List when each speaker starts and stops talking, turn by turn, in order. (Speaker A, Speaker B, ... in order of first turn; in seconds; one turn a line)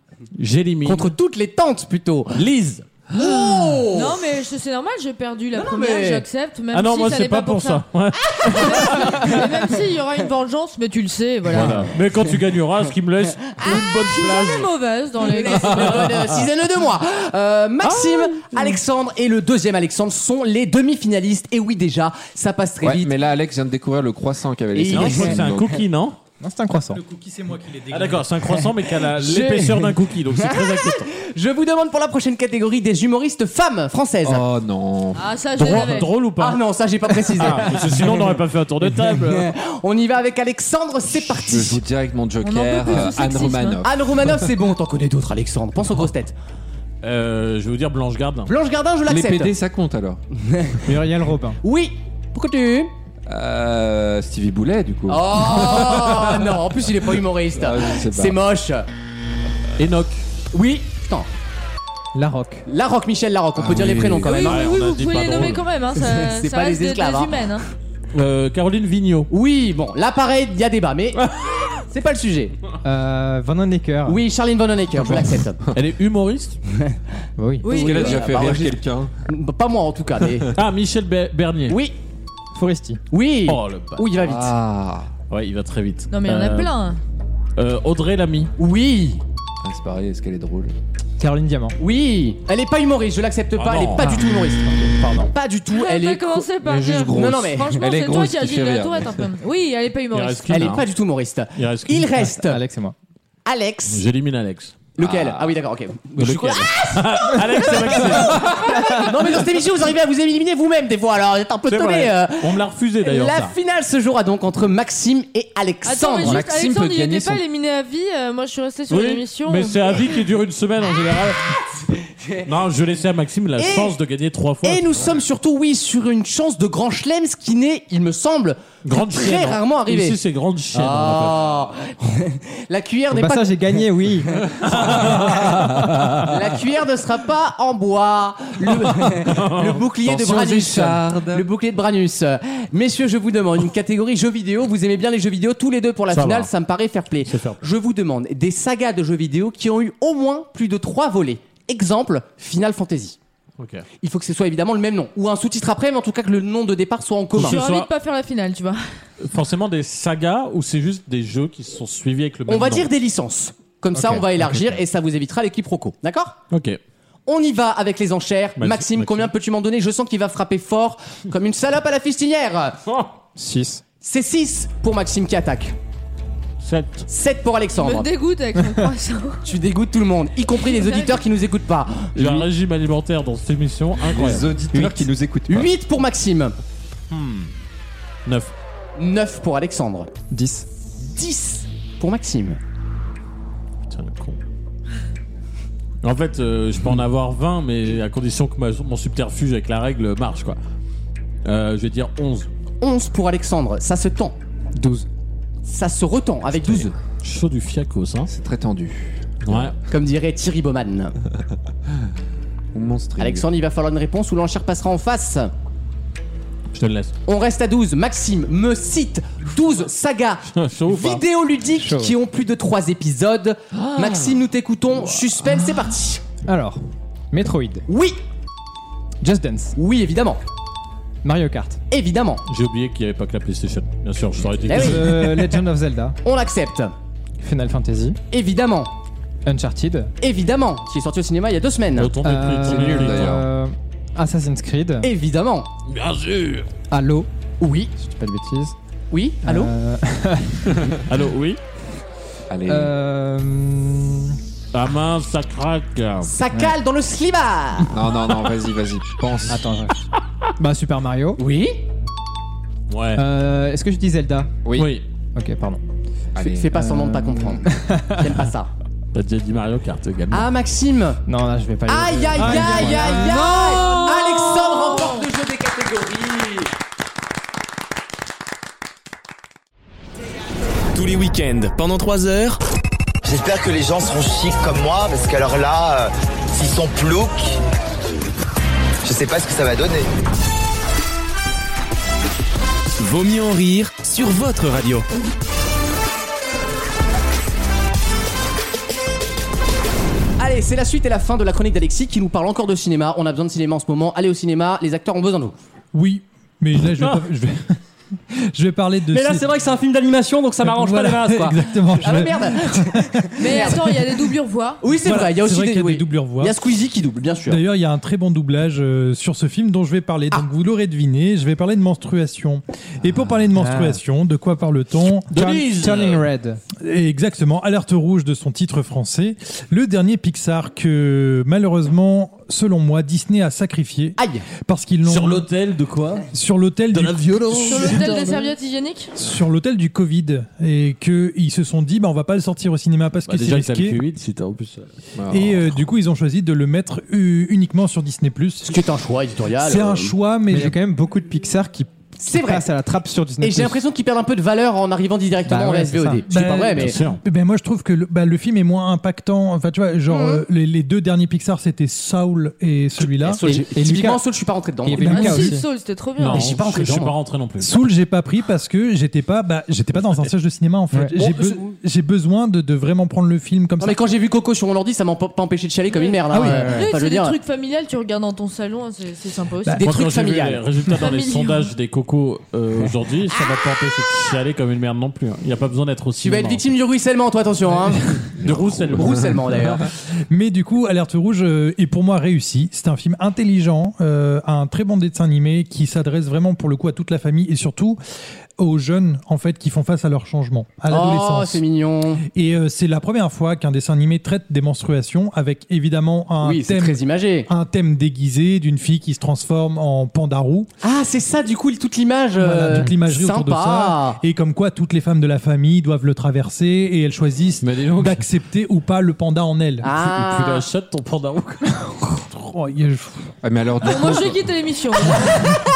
Speaker A: 0.4-1.1
Speaker B: 0.8-2.4
Speaker A: 2.4-2.9
Speaker B: 3.1-4.2
Speaker C: 3.8-7.8
Speaker B: 5.5-6.2
Speaker A: 6.7-9.4
Speaker B: 8.3-9.4
Speaker C: 8.4-11.9
Speaker A: 11.5-14.7
Speaker B: 13.6-14.0
Speaker C: 13.7-16.1
Speaker B: 15.2-23.1
Speaker A: 15.7-16.5
Speaker A: 17.8-18.8
Speaker D: 22.8-25.8
Speaker B: 24.7-25.6
Speaker A: 24.9-26.2
Speaker E: 26.4-27.0
Speaker F: 26.9-28.6
Speaker A: 27.9-31.1
Speaker B: 28.9-34.5
Speaker D: 34.2-35.3
Speaker C: 35.2-36.1
Speaker A: 35.6-36.6
Speaker B: 36.4-38.1
Speaker A: 37.4-39.5
Speaker B: 39.1-41.8
Speaker D: 41.1-44.4
Speaker C: 42.4-43.8
Speaker B: 43.8-46.4
Speaker A: 47.0-48.5
Speaker B: 48.5-49.5
Speaker D: 49.1-50.2
Speaker B: 50.4-50.8
Speaker E: 50.9-51.6
Speaker B: 51.6-52.9
Speaker D: 53.3-56.7
Speaker B: 55.1-58.9
Speaker D: 57.5-58.4
Speaker A: 59.8-60.2
Speaker B: 60.5-61.3
Speaker E: 62.1-62.6
Speaker B: 62.7-64.6
Speaker D: 63.6-64.3
Speaker C: 64.2-67.6
Speaker A: 64.3-65.7
Speaker B: 66.0-67.3
Speaker A: 68.1-69.3
Speaker B: 69.3-71.2
Speaker A: 71.2-71.7
Speaker B: 71.9-72.5
Speaker E: 72.8-74.2
Speaker B: 74.1-75.6
Speaker A: 75.7-76.6
Speaker E: 77.4-77.7
Speaker C: 77.6-78.2
Speaker D: 77.7-79.1
Speaker B: 77.7-80.5
Speaker A: 80.6-81.8
Speaker B: 81.7-82.0
Speaker E: 82.5-83.0
Speaker B: 83.1-84.5
Speaker A: 83.5-84.0
Speaker D: 84.2-85.1
Speaker A: 85.3-86.7
Speaker C: 86.1-87.0
Speaker A: 87.6-88.5
Speaker B: 88.6-89.2
Speaker D: 89.6-90.7
Speaker E: 91.2-91.8
Speaker B: 91.8-96.5
Speaker A: 93.6-94.1
Speaker E: 94.8-95.3
Speaker C: 95.7-100.5
Speaker D: 96.6-99.3
Speaker B: 97.1-97.8
Speaker A: 100.1-100.8
Speaker B: 100.5-102.6
Speaker A: 101.6-102.3
Speaker E: 102.3-103.0
Speaker B: 103.5-104.0
Speaker A: 103.9-104.8
Speaker B: 105.0-116.4
Speaker D: 105.0-105.5
Speaker A: 106.2-108.5
Speaker A: 111.7-113.5
Speaker C: 115.8-120.1
Speaker D: 116.2-117.4
Speaker A: 118.9-121.6
Speaker A: 122.4-124.9
Speaker B: 123.6-124.0
Speaker B: 124.6-130.2
Speaker A: 128.8-131.5
Speaker B: 130.7-133.6
Speaker E: 133.1-134.5
Speaker B: 134.4-135.3
Speaker D: 134.6-136.0
Speaker A: 134.7-136.1
Speaker B: 136.2-153.2
Speaker A: 139.3-139.8
Speaker D: 140.0-141.5
Speaker A: 146.1-146.5
Speaker A: 147.3-147.6
Speaker A: 153.6-153.9
Speaker B: 154.0-157.6
Speaker A: 157.4-157.9
Speaker C: 157.4-158.8
Speaker A: 159.2-162.9
Speaker B: 162.5-166.4
Speaker E: 163.9-164.5
Speaker A: 166.5-166.8
Speaker B: 167.3-172.8
Speaker A: 168.6-169.3
Speaker E: 173.4-173.8
Speaker B: 174.0-175.8
Speaker A: 176.6-177.1
Speaker B: 177.1-178.1
Speaker C: 177.8-179.4
Speaker B: 179.4-182.5
Speaker C: 180.6-181.2
Speaker A: 182.2-184.5
Speaker D: 184.1-185.7
Speaker E: 184.7-185.1
Speaker B: 185.5-186.6
Speaker A: 187.1-187.5
Speaker A: 188.3-188.5
Speaker B: 189.0-190.1
Speaker E: 190.3-190.7
Speaker B: 191.1-192.6
Speaker A: 193.9-194.4
Speaker A: 196.0-200.6
Speaker A: 201.4-202.5
Speaker B: 202.8-204.3
Speaker E: 204.8-205.1
Speaker B: 205.7-206.9
Speaker A: 206.8-208.3
Speaker D: 208.3-209.7
Speaker A: 209.4-209.8
Speaker B: 209.9-211.1
Speaker D: 212.7-213.5
Speaker B: 213.2-215.5
Speaker A: 216.7-217.1
Speaker B: 217.3-226.2
Speaker A: 220.5-221.2
Speaker E: 221.7-222.2
Speaker D: 223.7-224.4
Speaker E: 226.5-226.8
Speaker E: 227.3-227.8
Speaker B: 227.9-228.2
Speaker E: 229.2-229.8
Speaker B: 229.8-230.4
Speaker E: 231.2-231.8
Speaker B: 231.9-232.4
Speaker A: 232.5-235.2
Speaker B: 234.7-235.6
Speaker E: 234.7-236.2
Speaker B: 236.2-236.9
Speaker E: 237.4-238.2
Speaker B: 238.3-238.9
Speaker E: 239.5-240.1
Speaker B: 240.2-242.1
Speaker A: 242.0-243.3
Speaker E: 242.2-245.1
Speaker D: 242.6-243.5
Speaker B: 245.0-245.7
Speaker A: 245.9-246.7
Speaker E: 246.9-247.3
Speaker B: 247.6-247.9
Speaker E: 248.0-248.8
Speaker B: 249.1-249.7
Speaker E: 249.4-250.7
Speaker D: 250.7-251.0
Speaker A: 251.1-251.6
Speaker D: 252.5-252.9
Speaker E: 252.7-254.4
Speaker A: 254.7-256.3
Speaker B: 256.2-257.9
Speaker D: 257.9-259.6
Speaker E: 259.5-260.0
Speaker E: 260.6-261.4
Speaker B: 261.4-261.8
Speaker A: 262.9-263.2
Speaker E: 263.2-264.5
Speaker D: 264.6-264.9
Speaker A: 264.8-265.1
Speaker E: 265.4-265.8
Speaker D: 266.4-266.7
Speaker B: 266.4-268.7
Speaker E: 266.7-268.4
Speaker A: 269.1-270.5
Speaker B: 270.3-271.2
Speaker E: 271.3-273.5
Speaker B: 271.9-276.7
Speaker A: 273.3-274.4
Speaker C: 273.6-275.2
Speaker G: 280.9-282.6
Speaker H: 283.2-287.6
Speaker H: 289.0-290.1
Speaker G: 293.0-295.1
Speaker B: 300.4-305.6
Speaker F: 305.9-307.8
Speaker A: 307.0-307.2
Speaker F: 308.3-309.5
Speaker B: 309.1-314.0
Speaker F: 310.6-313.6
Speaker C: 313.4-314.8
Speaker B: 314.8-317.6
Speaker F: 315.0-316.6
Speaker F: 317.5-325.6
Speaker E: 323.6-324.0
Speaker A: 325.3-326.2
Speaker E: 325.4-326.6
Speaker F: 326.8-335.5
Speaker B: 334.2-334.4
Speaker A: 335.0-336.3
Speaker F: 336.3-338.3
Speaker A: 336.9-338.5
Speaker C: 337.6-339.1
Speaker F: 339.2-344.0
Speaker A: 343.3-344.9
Speaker D: 345.2-345.8
Speaker F: 345.3-348.7
Speaker B: 348.7-350.1
Speaker F: 349.6-350.8
Speaker E: 350.5-353.8
Speaker B: 352.2-352.7
Speaker B: 353.4-357.0
Speaker E: 355.5-356.2
Speaker F: 356.3-363.4
Speaker A: 356.8-357.2
Speaker B: 360.1-360.4
Speaker B: 363.0-365.5
Speaker E: 363.5-364.2
Speaker E: 364.9-365.6
Speaker F: 365.0-365.5
Speaker C: 365.0-366.6
Speaker A: 366.2-367.8
Speaker B: 366.2-367.1
Speaker F: 367.6-374.0
Speaker B: 371.2-371.7
Speaker B: 373.8-377.4
Speaker C: 375.9-379.9
Speaker E: 376.3-376.9
Speaker B: 379.8-380.6
Speaker A: 379.8-386.7
Speaker C: 380.9-381.7
Speaker B: 386.2-388.2
Speaker A: 388.4-389.4
Speaker D: 388.4-389.7
Speaker B: 388.9-389.8
Speaker F: 390.3-398.0
Speaker F: 398.6-401.6
Speaker B: 400.9-402.2
Speaker F: 402.3-410.7
Speaker B: 406.4-407.5
Speaker B: 410.8-414.2
Speaker F: 412.4-419.9
Speaker A: 417.6-418.3
Speaker B: 419.8-420.6
Speaker A: 420.0-422.2
Speaker F: 422.3-423.3
Speaker D: 423.4-424.4
Speaker C: 423.8-425.6